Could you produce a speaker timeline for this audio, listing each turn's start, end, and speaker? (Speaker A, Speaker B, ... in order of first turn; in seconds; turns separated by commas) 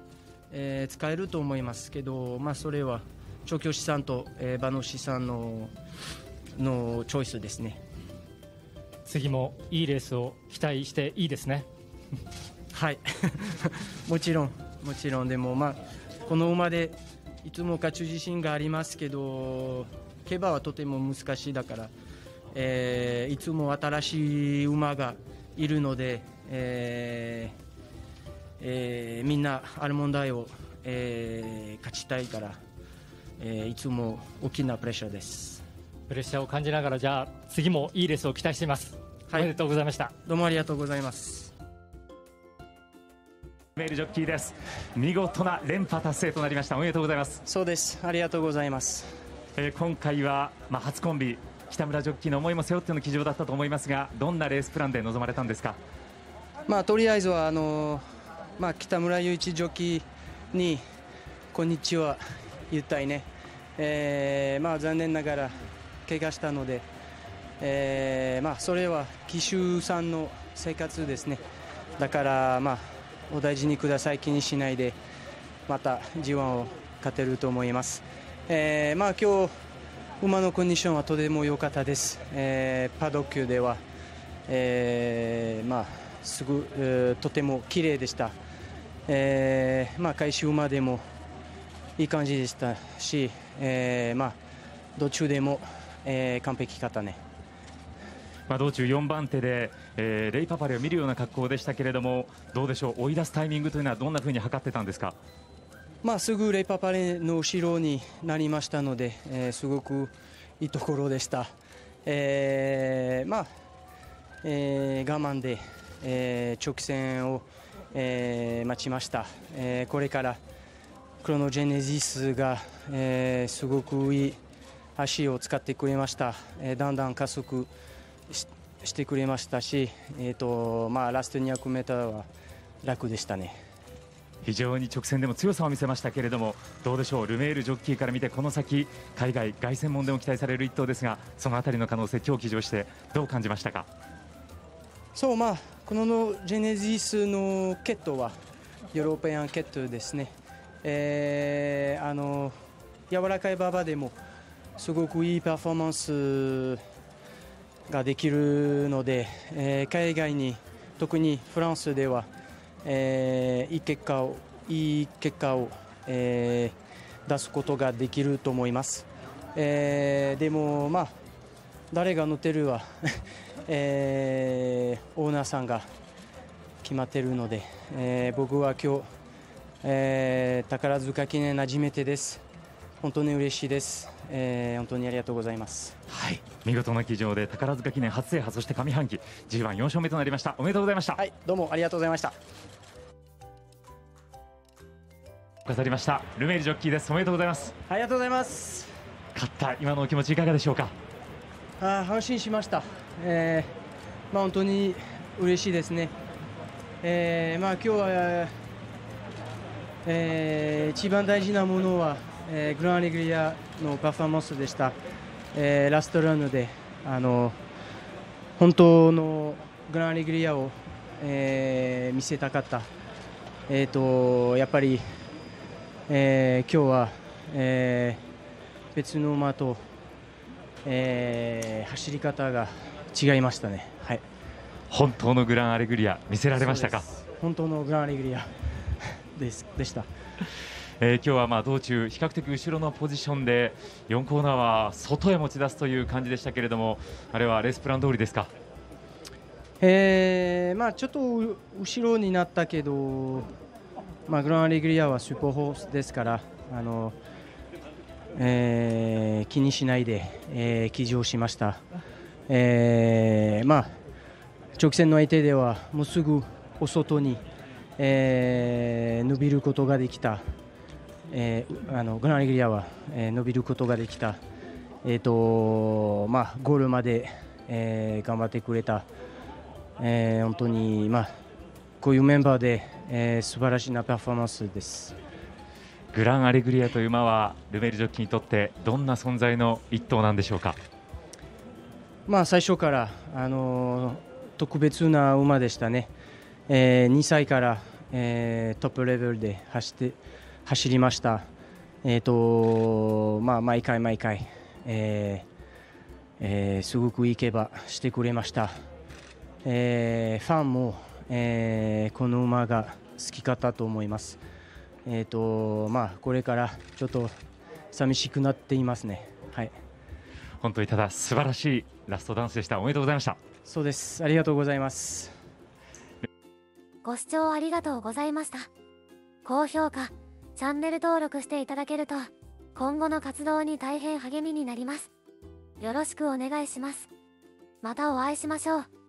Speaker A: 0.5-5.7, Speaker A: 6.5-7.8, Speaker B: 9.0-11.7, Speaker A: 12.7-21.9, Speaker A: 22.5-27.5, Speaker A: 28.6-32.6, Speaker A: 33.4-35.6, Speaker B: 36.1-40.1, Speaker A: 40.2-41.5, Speaker C: 43.8-47.4, Speaker A: 47.5-49.1, Speaker C: 49.5-55.8, Speaker A: 56.7-58.0, Speaker A: 58.6-60.8, Speaker A: 61.5-66.9, Speaker A: 67.6-71.4, Speaker A: 72.0-75.0, Speaker A: 75.7-79.5, Speaker A: 80.2-83.8, Speaker A: 84.5-88.3, Speaker A: 89.1-91.0, Speaker A: 92.0-94.4, Speaker A: 95.0-97.2, Speaker C: 98.5-105.2, Speaker A: 106.0-111.5, Speaker A: 112.0-113.5, Speaker A: 114.4-120.4, Speaker A: 121.2-124.4, Speaker A: 125.0-127.7, Speaker A: 128.3-132.3, Speaker A: 132.8-133.5, Speaker C: 134.4-143.9, Speaker A: 145.1-148.4, Speaker A: 148.9-150.3, Speaker A: 150.8-152.5, Speaker A: 153.1-154.2, Speaker A: 154.8-156.8, Speaker A: 157.9-162.3, Speaker A: 162.8-166.7, Speaker A: 167.2-171.1, Speaker A: 171.9-175.9, Speaker A: 176.8-179.1, Speaker A: 179.8-182.4, Speaker A: 183.0-186.0, Speaker C: 186.1-191.2, Speaker A: 191.2-192.3, Speaker C: 195.7-197.7, Speaker A: 197.9-198.9, Speaker C: 199.3-200.9, Speaker A: 201.8-203.7, Speaker A: 204.3-206.1, Speaker A: 207.0-208.5, Speaker A: 210.0-214.9, Speaker A: 215.5-217.6, Speaker A: 218.6-222.9, Speaker A: 223.7-225.0, Speaker A: 226.1-228.2, Speaker A: 228.9-229.8, Speaker A: 230.8-234.2, Speaker C: 234.9-237.1, Speaker A: 236.5-238.5, Speaker A: 239.3-240.1, Speaker C: 241.0-248.5, Speaker A: 249.8-253.5, Speaker A: 254.3-257.1, Speaker A: 258.3-261.8, Speaker A: 262.5-263.9, Speaker A: 264.8-267.4, Speaker A: 268.0-270.4, Speaker A: 271.3-274.4, Speaker A: 275.0-279.1, Speaker A: 280.0-281.3, Speaker A: 282.0-285.1, Speaker C: 286.1-290.8, Speaker A: 292.2-296.1, Speaker A: 296.7-301.4, Speaker A: 302.0-305.4, Speaker A: 306.4-308.7, Speaker A: 309.6-314.4, Speaker A: 315.1-317.3, Speaker A: 317.9-319.7, Speaker C: 320.6-323.4, Speaker A: 323.6-325.3, Speaker D: 327.0-328.7, Speaker D: 329.4-335.1, Speaker D: 335.8-337.1, Speaker D: 337.8-338.9